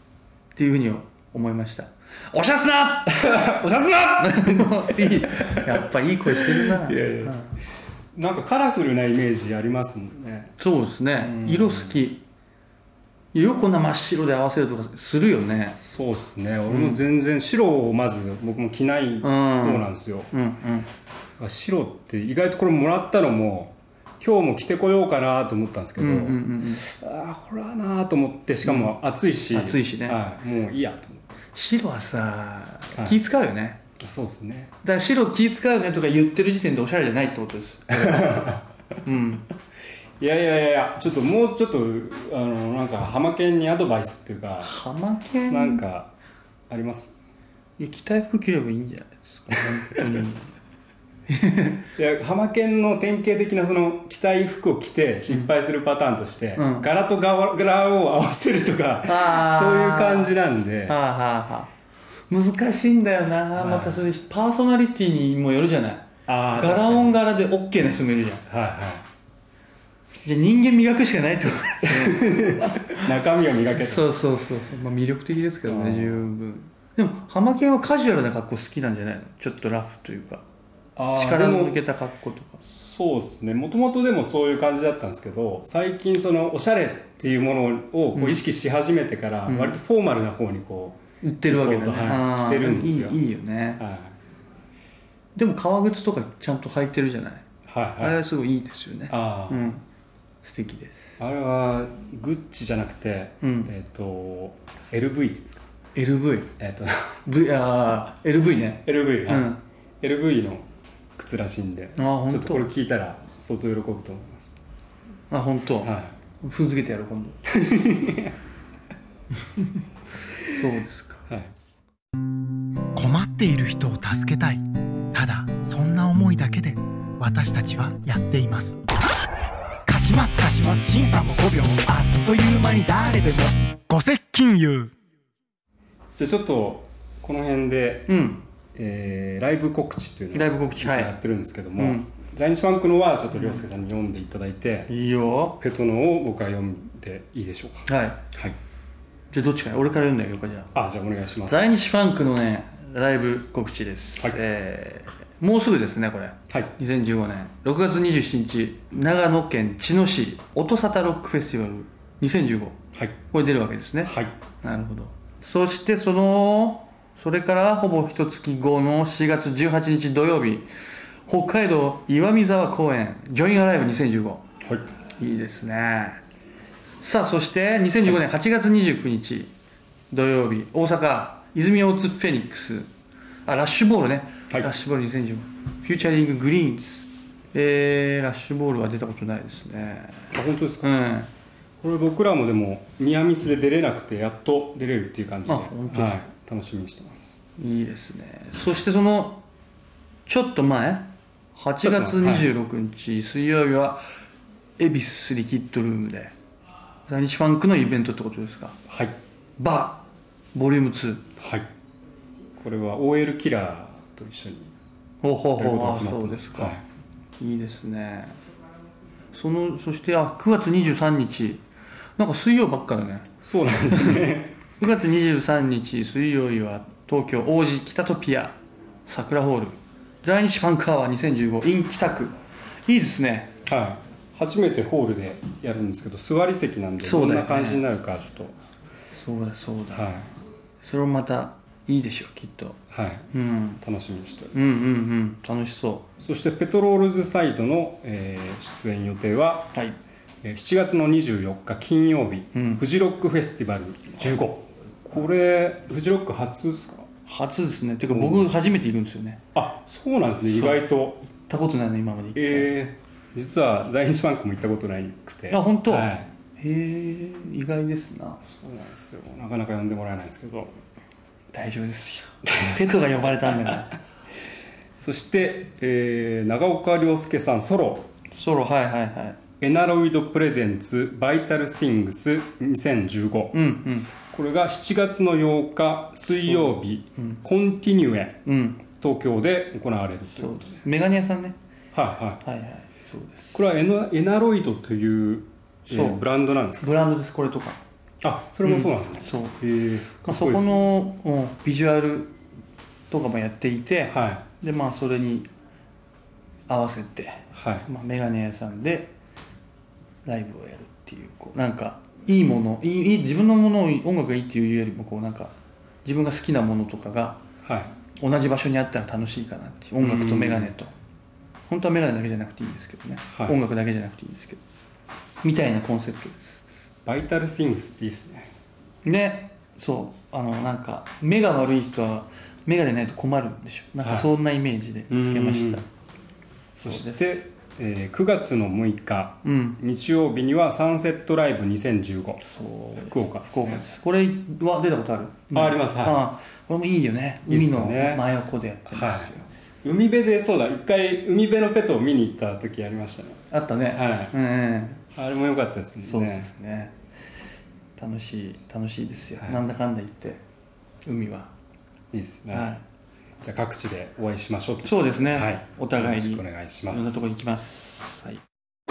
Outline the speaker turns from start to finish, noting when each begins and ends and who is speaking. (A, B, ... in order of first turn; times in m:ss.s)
0:00.6-0:03.3 A
0:03.1-0:07.4 B
0:04.2-0:07.5 A
0:08.1-0:10.5 B
0:10.6-0:12.2 A
0:11.2-0:12.0 B
0:13.3-0:15.8 A
0:15.8-0:20.3 B
0:16.7-0:17.0 A
0:19.2-0:20.9 A
0:21.4-0:31.2 B
0:26.0-0:26.8 A
0:28.6-0:28.9 A
0:29.5-0:30.2 A
0:31.6-0:33.8 A
0:34.0-0:34.7 B
0:34.8-0:39.5 A
0:37.9-0:38.6 B
0:40.2-0:44.8 B
0:44.6-0:45.8 A
0:45.5-0:46.1 B
0:46.7-0:47.2 B
0:47.8-0:50.5 A
0:49.6-0:50.2 B
0:51.3-0:51.8 A
0:52.0-1:01.0 B
0:56.6-0:56.9 A
0:59.1-1:00.3 A
1:00.9-1:01.7 A
1:02.3-1:08.4 A
1:03.6-1:04.0 B
1:06.3-1:07.2 B
1:08.5-1:09.0 B
1:10.2-1:13.1 A
1:11.8-1:14.0 B
1:13.8-1:20.4 A
1:15.7-1:16.3 B
1:21.0-1:21.8 B
1:21.1-1:22.6 A
1:22.6-1:33.2 B
1:28.2-1:28.4 A
1:29.5-1:29.8 A
1:31.2-1:33.8 A
1:33.8-1:34.2 B
1:35.4-1:37.4 A
1:37.7-1:38.2 B
1:38.0-1:39.8 A
1:39.1-1:39.7 B
1:40.4-1:41.2 A
1:41.2-1:45.7 B
1:43.4-1:43.7 A
1:46.0-1:46.5 A
1:46.6-1:47.2 B
1:47.3-1:49.6 A
1:48.8-1:54.5 B
1:52.0-1:52.7 A
1:55.3-1:57.4 A
1:55.8-1:56.2 B
1:57.5-1:58.3 B
2:00.5-2:01.2 A
2:01.3-2:01.5 B
2:03.0-2:08.8 C
2:09.9-2:14.9 C
2:16.2-2:18.2 B
2:18.1-2:18.4 A
2:18.8-2:24.9 B
2:20.3-2:21.1 A
2:21.8-2:22.1 A
2:23.3-2:23.6 A
2:24.9-2:25.6 A
2:25.6-2:28.6 B
2:27.9-2:28.2 A
2:29.3-2:30.7 A
2:30.8-2:31.8 B
2:31.5-2:42.8 A
2:43.3-2:50.7 A
2:44.0-2:44.4 B
2:51.3-2:54.4 A
2:55.2-2:56.2 A
2:57.0-2:59.5 A
3:00.1-3:02.9 A
3:03.5-3:11.3 A
3:10.3-3:10.9 B
3:11.8-3:17.4 B
3:15.5-3:16.3 A
3:17.6-3:19.4 A
3:20.3-3:24.0 A
3:21.8-3:22.5 B
3:24.8-3:26.3 A
3:27.1-3:28.8 A
3:28.9-3:29.2 B
3:29.6-3:31.3 A
3:31.4-3:31.7 B
3:32.6-3:34.7 B
3:35.2-3:36.8 A
3:35.6-3:36.8 B
3:37.4-3:38.4 A
3:39.3-3:41.6 A
3:42.2-3:43.3 A
3:43.4-3:44.5 B
3:43.9-3:44.3 A
3:44.8-3:48.6 A
3:49.1-3:52.4 A
3:52.9-3:53.5 A
3:53.7-3:58.6 B
3:57.0-3:57.8 A
3:59.1-4:00.1 A
3:59.9-4:00.3 B
4:00.8-4:02.8 A
4:02.9-4:03.3 B
4:03.3-4:03.8 A
4:03.8-4:05.1 B
4:04.5-4:06.1 A
4:06.2-4:09.7 B
4:10.4-4:17.1 B
4:12.5-4:12.8 A
4:17.3-4:19.4 A
4:18.1-4:18.5 B
4:19.6-4:21.2 B
4:20.4-4:22.7 A
4:22.4-4:26.3 B
4:25.5-4:28.4 A
4:28.4-4:30.7 B
4:31.5-4:34.0 A
4:32.4-4:33.8 B
4:35.0-4:38.1 B
4:38.3-4:39.4 A
4:39.6-4:43.6 B
4:43.5-4:44.1 A
4:44.1-4:50.8 B
4:46.3-4:47.4 A
4:48.4-4:48.8 A
4:50.3-4:51.6 A
4:51.9-4:52.4 B
4:52.4-4:53.7 A
4:53.5-4:56.9 B
4:55.9-4:56.2 A
4:56.8-4:57.8 A
4:58.2-5:00.8 B
4:58.6-4:59.6 A
5:00.2-5:02.4 A
5:03.1-5:05.5 A
5:04.1-5:04.4 B
5:06.7-5:09.1 A
5:07.6-5:07.9 B
5:10.2-5:15.5 A
5:16.0-5:17.4 A
5:17.6-5:17.9 B
5:18.2-5:20.9 A
5:20.0-5:20.7 B
5:21.7-5:24.6 A
5:25.4-5:26.6 A
5:27.1-5:28.5 B
5:29.0-5:35.8 A
5:35.1-5:35.8 B
5:36.8-5:37.4 A
5:36.8-5:42.5 B
5:39.4-5:39.8 A
5:42.4-5:49.5 A
5:43.0-5:43.8 B
5:45.5-5:46.2 B
5:47.5-5:48.2 B
5:48.9-5:53.4 B
5:53.5-5:55.0 A
5:53.9-5:54.3 B
5:55.2-5:56.5 B
5:56.0-5:56.9 A
5:58.0-6:00.4 A
6:01.0-6:01.5 A
6:02.1-6:02.7 B
6:02.5-6:02.8 A
6:03.4-6:07.3 B
6:04.8-6:08.4 A